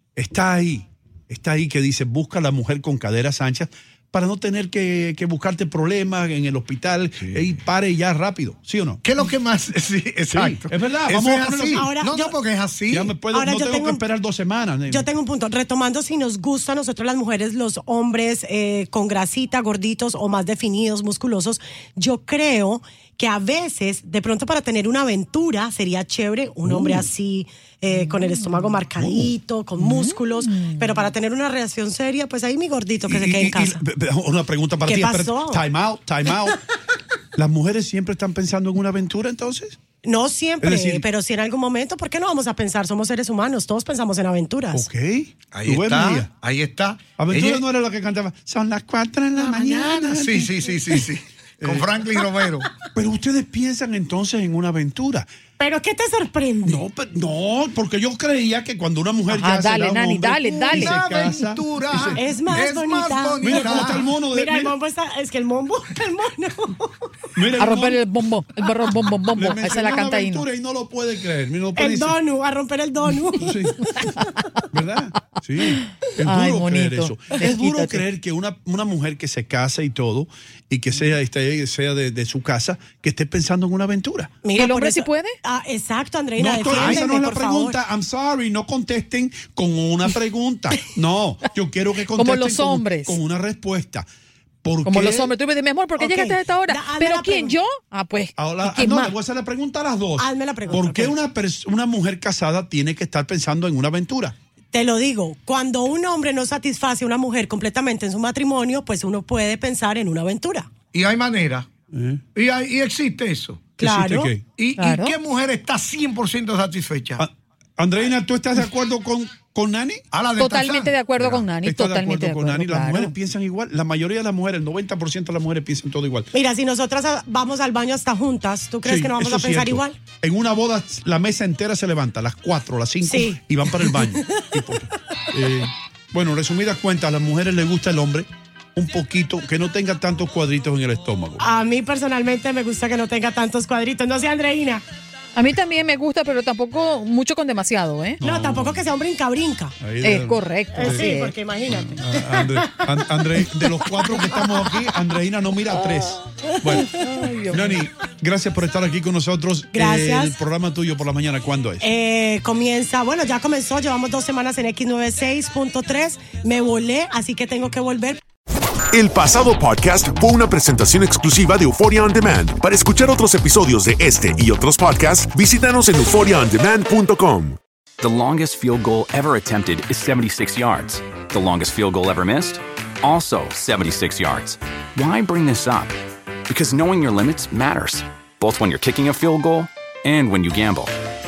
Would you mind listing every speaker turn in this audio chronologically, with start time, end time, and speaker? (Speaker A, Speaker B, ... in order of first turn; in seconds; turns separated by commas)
Speaker A: 0.1-9.0, Speaker B: 7.2-7.5, Speaker B: 9.0-13.2, Speaker A: 10.3-11.8, Speaker C: 11.7-12.4, Speaker A: 12.9-15.1, Speaker C: 13.2-14.0, Speaker C: 14.9-33.8, Speaker A: 26.7-27.1, Speaker D: 27.9-28.7, Speaker A: 28.9-29.3, Speaker D: 29.8-30.9, Speaker A: 33.0-36.6, Speaker C: 34.8-35.7, Speaker A: 37.3-39.8, Speaker C: 40.0-44.9, Speaker A: 40.6-41.0, Speaker A: 44.7-46.3, Speaker B: 45.5-47.6, Speaker A: 47.2-51.0, Speaker B: 49.4-52.7, Speaker A: 52.9-55.2, Speaker C: 55.6-56.8, Speaker A: 56.6-62.2, Speaker D: 59.3-61.0, Speaker B: 60.7-64.1, Speaker C: 62.1-66.9, Speaker A: 63.4-64.7, Speaker A: 67.3-68.0, Speaker D: 67.6-70.5, Speaker A: 69.3-72.2, Speaker C: 71.7-74.4, Speaker A: 73.4-73.8, Speaker A: 74.7-84.3, Speaker D: 76.2-78.0, Speaker C: 84.4-87.8, Speaker D: 84.5-85.3, Speaker A: 86.4-94.0, Speaker D: 92.1-93.2, Speaker A: 94.6-95.3, Speaker D: 94.8-99.1, Speaker C: 96.0-97.6, Speaker A: 98.4-104.3, Speaker C: 100.2-101.2, Speaker C: 104.7-110.7, Speaker B: 110.9-111.7, Speaker A: 111.9-112.2, Speaker B: 112.3-113.6, Speaker C: 113.8-114.3, Speaker A: 113.8-114.4, Speaker B: 114.5-117.2, Speaker D: 114.8-115.2, Speaker A: 117.2-120.0, Speaker B: 120.1-121.1, Speaker D: 120.3-123.1, Speaker A: 121.2-126.3, Speaker C: 126.3-130.0, Speaker A: 128.8-141.4, Speaker C: 133.0-134.6, Speaker C: 141.4-144.8, Speaker D: 145.3-148.2, Speaker A: 148.2-148.8, Speaker C: 148.2-149.7, Speaker A: 149.8-151.1, Speaker D: 150.0-151.3, Speaker C: 150.7-154.9, Speaker A: 151.8-156.9, Speaker D: 156.7-157.8, Speaker C: 156.7-157.3, Speaker A: 157.5-161.8, Speaker C: 159.7-160.4, Speaker C: 161.8-168.2, Speaker E: 169.0-177.6, Speaker F: 178.0-185.9, Speaker F: 186.5-190.9